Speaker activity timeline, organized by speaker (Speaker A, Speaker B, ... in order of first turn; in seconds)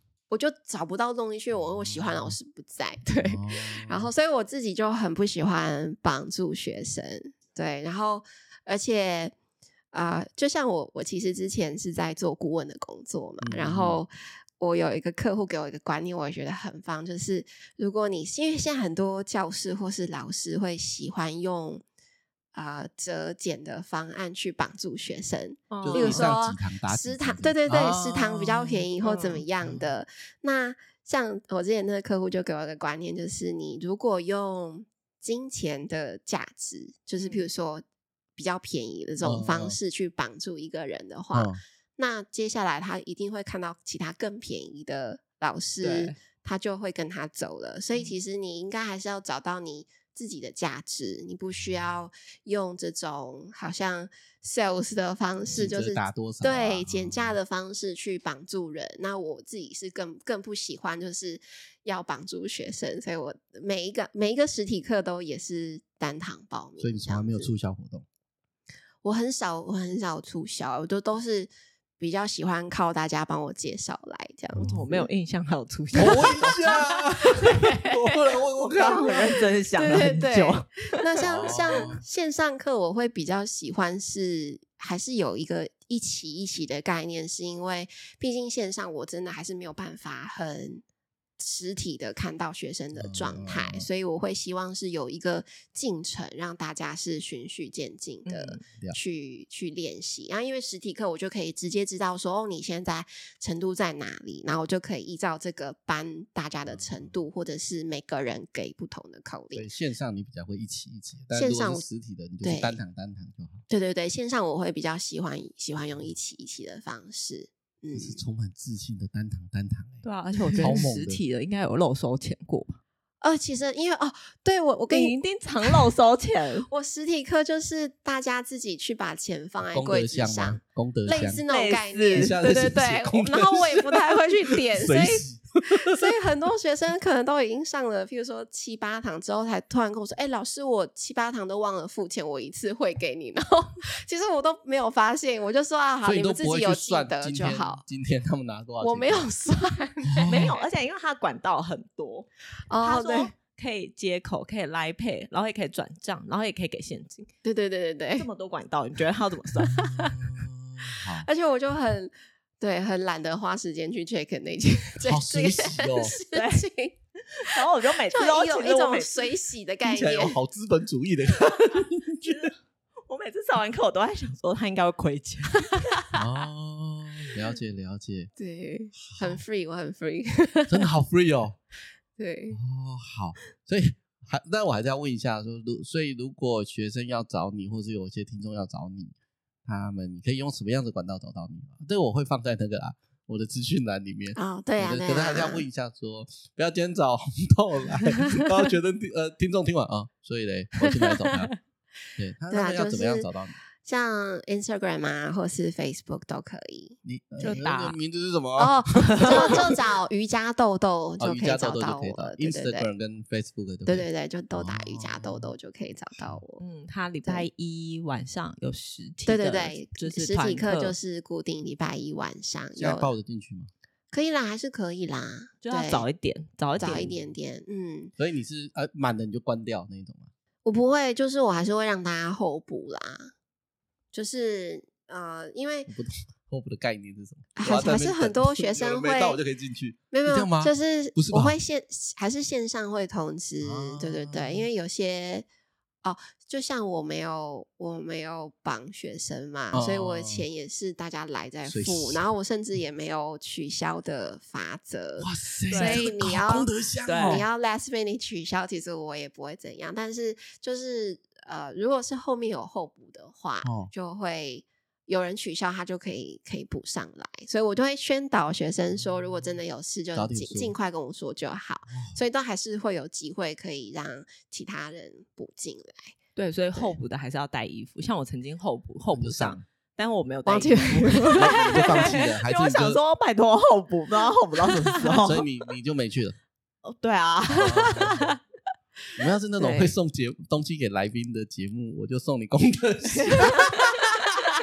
Speaker A: 0.3-9.3, 9.9-21.8, 22.5-37.8, 38.4-67.5, 69.0-75.0, 76.0-76.8, 79.8-90.8, 91.4-109.7, 111.3-111.8, 112.4-112.8, 113.7-118.2, 120.5-120.9, 123.2-125.8, 126.7-147.8, 148.8-150.7, 152.7-153.3, 157.4-158.3, 159.8-160.2, 160.9-167.0, 168.1-170.4, 178.4-180.9, 182.2-182.6, 194.4-195.7, 201.0-201.3, 202.5-203.3, 203.8-207.0, 208.6-212.9, 213.9-216.6, 219.3-223.1, 224.1-226.1, 226.8-228.1, 230.7-233.3, 234.1-235.9, 237.6-239.4, 240.1-245.5, 246.0-276.2, 280.5-282.1, 287.8-288.0, 289.6-289.9
Speaker B: 1.8-2.4, 3.2-4.1, 13.4-14.0, 25.8-28.9, 29.6-29.9, 39.2-39.8, 41.3-41.6, 55.5-57.3, 66.8-68.0, 74.6-74.8, 75.9-79.4, 81.2-82.0, 93.0-93.9, 106.7-107.1, 109.5-113.6, 117.9-120.0, 120.6-121.2, 129.7-131.4, 132.1-136.1, 146.0-149.3, 150.1-150.5, 159.7-161.3, 165.0-166.2, 169.8-172.5, 176.1-178.3, 179.0-179.4, 180.7-181.6, 182.5-201.5, 202.2-203.6, 207.0-209.7, 211.2-215.5, 222.8-223.7, 226.8-227.3, 228.2-230.3, 235.9-241.6, 243.6-244.7, 249.7-250.5, 251.7-252.2, 255.2-257.4, 263.6-263.9, 270.1-270.7, 279.1-279.6, 281.3-283.0, 285.0-286.4, 287.5-288.3, 289.2-294.2
Speaker C: 25.7-26.3, 29.0-29.4, 37.2-37.4, 45.8-46.2, 74.6-77.8, 78.7-81.2, 98.3-98.6, 120.0-122.8, 124.9-126.7, 131.5-132.5, 150.2-152.3, 152.8-157.3, 158.2-159.8, 166.3-166.7, 167.4-169.2, 172.2-172.6, 173.1-176.2, 207.4-208.0, 209.0-209.7, 216.6-221.0, 225.6-227.1, 255.7-256.2, 257.1-257.4, 276.4-285.4, 286.9-288.4, 293.1-294.0